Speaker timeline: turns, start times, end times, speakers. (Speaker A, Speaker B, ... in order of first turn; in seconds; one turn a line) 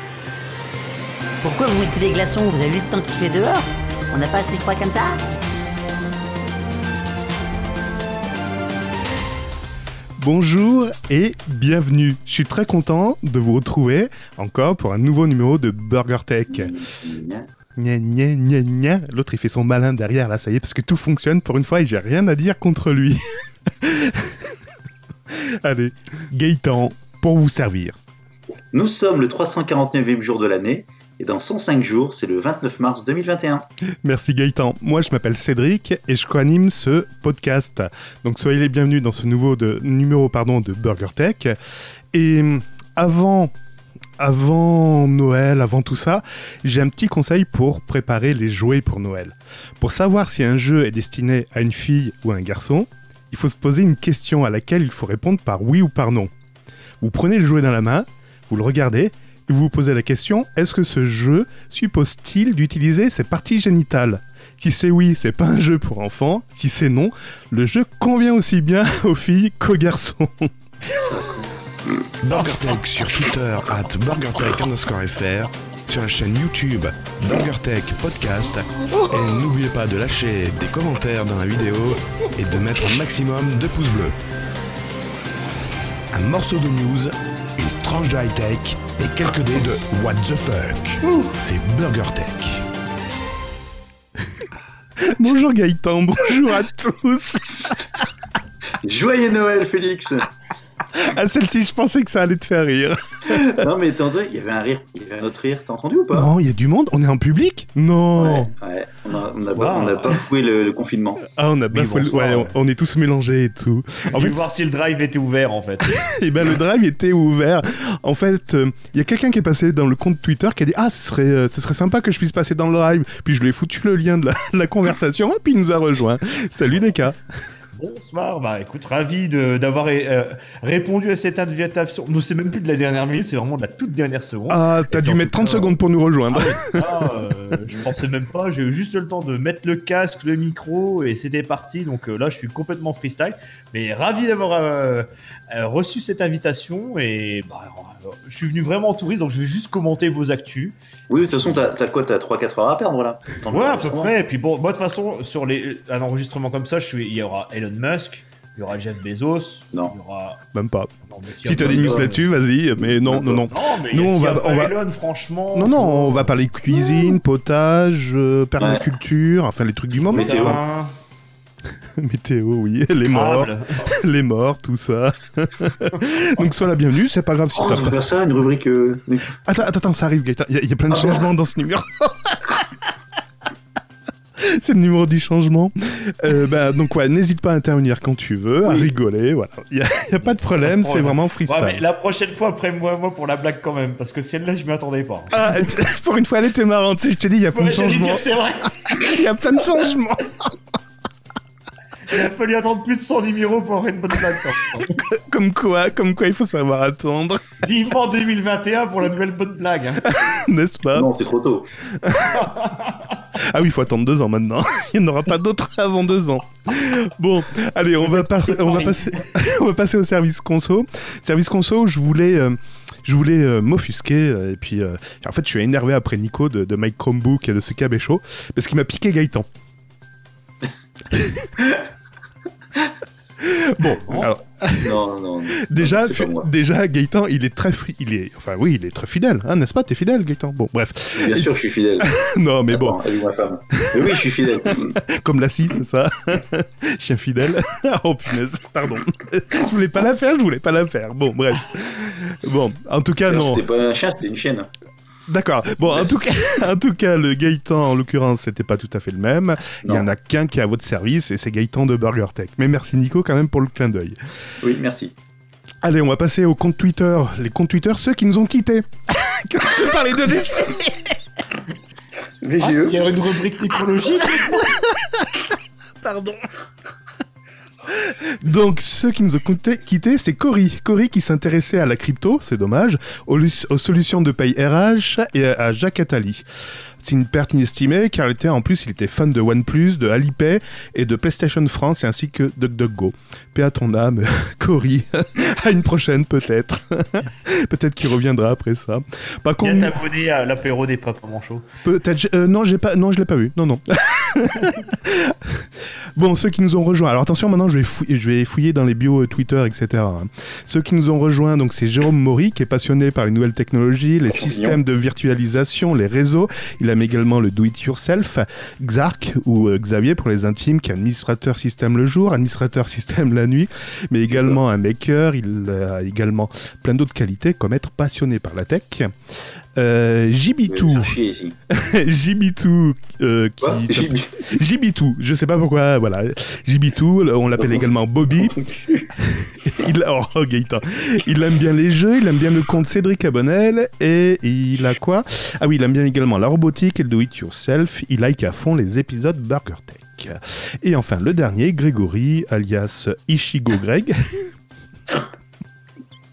Speaker A: 1.4-5.2
Speaker B: 10.2-16.8
Speaker C: 16.5-17.5
Speaker B: 17.8-23.2
Speaker B: 23.8-24.6
Speaker B: 25.3-28.0
Speaker C: 28.7-33.7
Speaker B: 34.0-41.6
Speaker B: 42.1-43.5
Speaker B: 44.2-56.3
Speaker B: 57.0-70.5
Speaker D: 72.3-72.7
Speaker D: 73.8-75.1
Speaker D: 75.9-78.3
Speaker D: 79.3-83.7
Speaker D: 86.2-86.8
Speaker D: 87.7-89.5
Speaker D: 90.1-90.5
Speaker D: 91.8-92.5
Speaker B: 95.0-97.8
Speaker C: 98.8-100.3
Speaker B: 100.9-103.6
Speaker C: 103.3-106.3
Speaker B: 106.1-108.5
Speaker C: 108.2-111.2
Speaker E: 109.5-110.2
Speaker B: 111.3-114.5
Speaker E: 111.7-112.6
Speaker E: 114.1-116.0
Speaker B: 115.9-127.2
Speaker E: 127.7-135.8
Speaker B: 134.5-137.1
Speaker E: 136.3-150.8
Speaker C: 151.1-154.1
Speaker E: 153.5-160.4
Speaker B: 160.5-160.9
Speaker E: 161.1-162.2
Speaker B: 161.4-164.7
Speaker C: 163.1-163.4
Speaker E: 163.5-166.4
Speaker B: 165.5-170.6
Speaker C: 168.6-168.9
Speaker E: 170.1-171.0
Speaker C: 170.1-170.6
Speaker B: 172.0-178.0
Speaker E: 173.0-173.9
Speaker C: 177.6-179.3
Speaker B: 179.4-182.8
Speaker C: 180.9-181.2
Speaker B: 184.4-191.8
Speaker E: 190.2-195.4
Speaker B: 195.3-198.2
Speaker E: 197.5-199.1
Speaker B: 198.9-200.5
Speaker E: 202.1-205.0
Speaker B: 204.8-207.6
Speaker E: 207.6-210.2
Speaker B: 210.1-211.1
Speaker C: 210.9-211.7
Speaker B: 211.9-212.6
Speaker E: 212.4-213.2
Speaker B: 213.3-229.5
Speaker E: 218.0-219.3
Speaker B: 231.1-231.5
Speaker B: 233.4-235.0
Speaker E: 234.0-234.3
Speaker C: 234.8-236.5
Speaker B: 235.6-243.0
Speaker C: 241.2-242.1
Speaker C: 242.7-245.0
Speaker B: 243.8-244.1
Speaker B: 244.7-253.6
Speaker C: 253.3-254.7
Speaker B: 255.3-264.2
Speaker C: 255.8-256.2
Speaker C: 264.6-265.1
Speaker B: 265.8-271.2
Speaker C: 272.4-273.0
Speaker E: 272.6-274.7
Speaker B: 276.0-276.4
Speaker B: 277.9-286.4
Speaker B: 287.0-300.0
Speaker E: 299.6-301.7
Speaker B: 301.8-329.1
Speaker C: 314.3-314.8
Speaker C: 324.3-324.6
Speaker B: 329.8-331.1
Speaker C: 330.7-331.6
Speaker B: 331.7-338.6
Speaker C: 333.6-334.6
Speaker C: 337.6-339.1
Speaker B: 339.2-354.5